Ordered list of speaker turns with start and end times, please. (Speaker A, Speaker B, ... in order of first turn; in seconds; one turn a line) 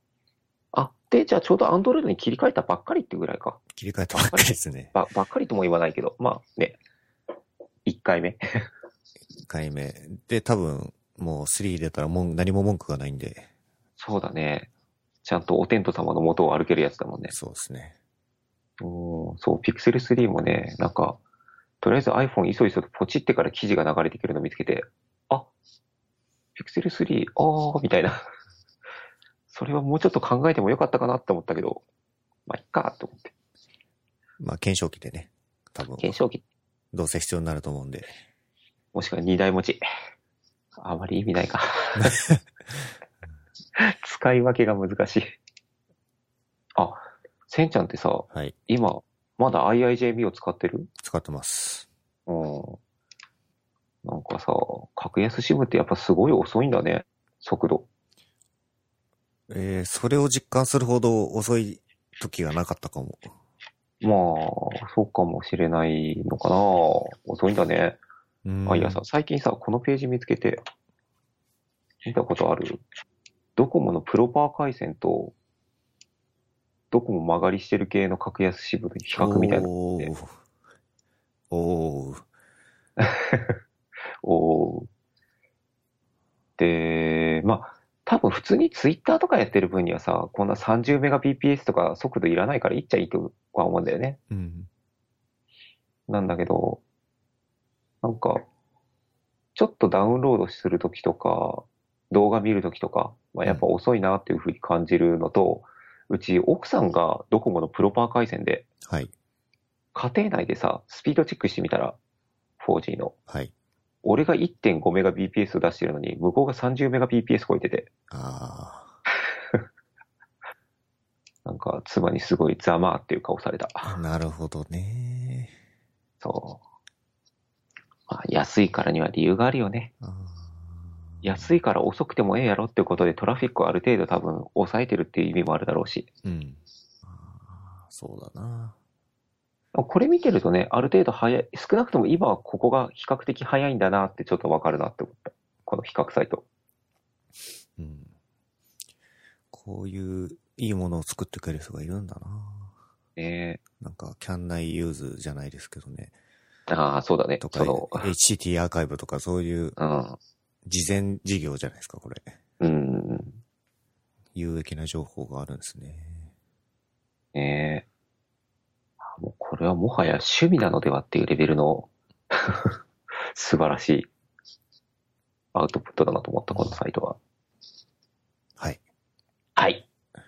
Speaker A: 0.7-3.6
Speaker B: 3.7-5.0
Speaker A: 4.3-6.8
Speaker A: 7.9-8.4
Speaker B: 9.4-13.5
Speaker A: 14.0-14.7
Speaker A: 15.2-17.3
Speaker B: 17.3-18.0
Speaker A: 18.8-21.2
Speaker A: 21.8-25.5
Speaker A: 26.6-28.2
Speaker A: 29.5-31.8
Speaker A: 32.5-33.3
Speaker B: 34.4-36.1
Speaker A: 36.0-36.4
Speaker B: 36.9-38.1
Speaker A: 38.9-39.8
Speaker A: 40.8-42.2
Speaker B: 42.0-42.4
Speaker A: 43.8-45.4
Speaker A: 46.8-50.9
Speaker B: 51.0-51.9
Speaker A: 52.3-52.8
Speaker A: 54.0-57.9
Speaker B: 59.5-63.3
Speaker A: 64.0-68.0
Speaker B: 68.5-69.0
Speaker A: 68.7-70.6
Speaker A: 72.0-72.8
Speaker A: 73.6-75.3
Speaker A: 76.9-80.1
Speaker B: 79.2-80.3
Speaker B: 81.5-82.2
Speaker A: 83.0-83.5
Speaker A: 84.2-84.9
Speaker A: 86.6-94.2
Speaker B: 94.3-94.7
Speaker A: 96.1-96.8
Speaker A: 98.0-98.4
Speaker A: 99.6-108.7
Speaker B: 108.8-109.1
Speaker A: 109.9-112.0
Speaker A: 112.6-113.2
Speaker A: 114.0-117.9
Speaker B: 118.1-119.0
Speaker A: 121.5-123.9
Speaker B: 123.8-125.5
Speaker A: 126.2-126.6
Speaker A: 128.1-129.9
Speaker B: 130.0-131.5
Speaker A: 131.2-136.1
Speaker B: 136.2-138.8
Speaker A: 139.8-146.4
Speaker B: 147.8-148.1
Speaker B: 149.5-152.7
Speaker A: 153.2-153.6
Speaker B: 153.8-156.1
Speaker A: 156.7-158.1
Speaker B: 157.4-159.8
Speaker A: 159.8-160.2
Speaker B: 160.7-162.3
Speaker A: 162.6-163.4
Speaker B: 164.3-166.3
Speaker A: 167.3-167.8
Speaker A: 169.2-172.8
Speaker A: 173.3-174.1
Speaker A: 175.5-177.2
Speaker A: 179.6-179.9